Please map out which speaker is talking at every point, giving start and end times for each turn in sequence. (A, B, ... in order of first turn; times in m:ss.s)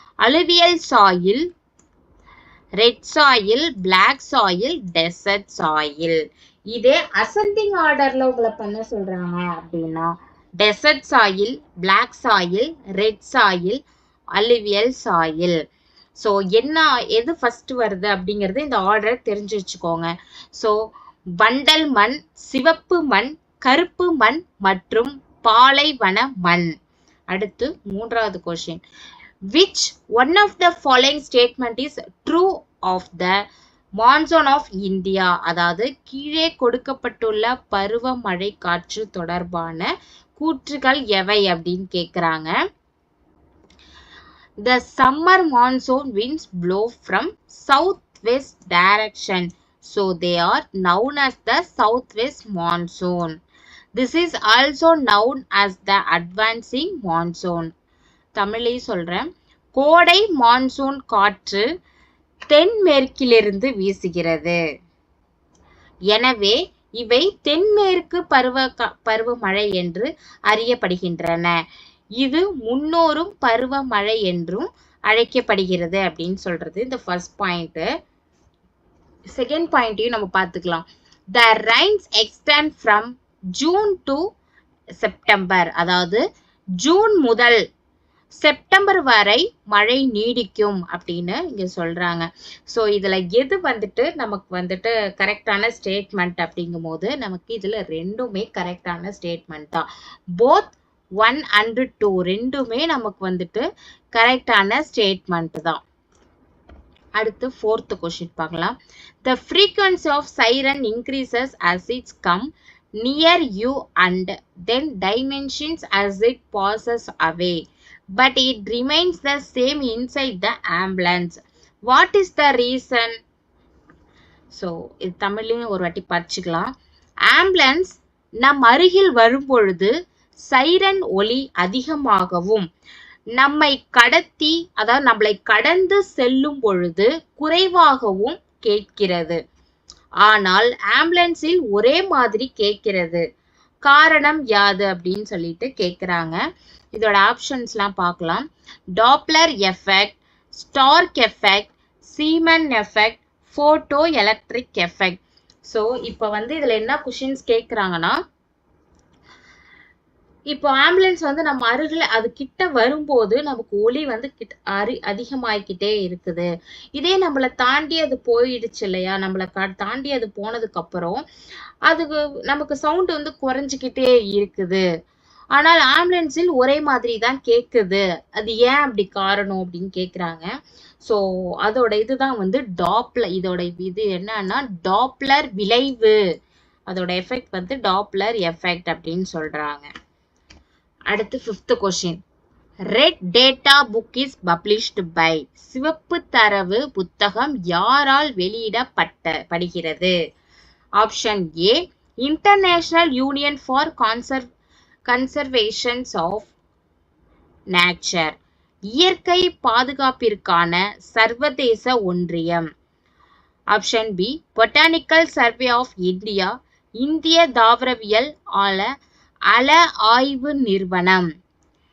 0:00.2-0:01.4 A
0:02.8-0:06.2 A
0:06.7-0:13.8 A
0:14.4-0:15.6 A
0:16.2-0:20.8 A
0:21.4-0:26.7 A
0:27.3-0:28.8 A
0:29.5-0:33.4 A
0:34.0-0:42.5 A
0:44.6-0:53.3 A
0:54.0-0:57.7 A
0:58.4-1:01.6 A
1:02.5-1:04.6 A
1:06.1-1:11.6 A
1:12.2-1:17.9 A
1:19.3-1:24.2 A
1:25.0-1:26.2 A
1:26.8-1:27.6 A
1:28.3-1:39.8 A
1:40.4-1:45.8 A
1:47.2-1:52.5 A
1:53.0-1:57.6 A
1:58.2-2:03.1 A
2:04.5-2:06.7 A
2:07.3-2:12.6 A
2:13.4-2:19.4 A
2:20.2-2:23.2 A
2:23.8-2:26.4 A
2:26.9-2:28.4 A
2:29.0-2:38.2 A
2:40.5-2:51.2 A
2:51.9-2:54.8 A
2:55.6-3:00.5 A
3:01.0-3:06.2 A
3:06.9-3:09.9 A
3:11.1-3:12.2 A
3:12.9-3:20.1 A
3:21.0-3:24.5 A
3:25.1-3:26.5 A
3:27.7-3:28.4 A
3:28.9-3:32.6 A
3:33.7-3:38.9 A
3:39.5-3:41.3 A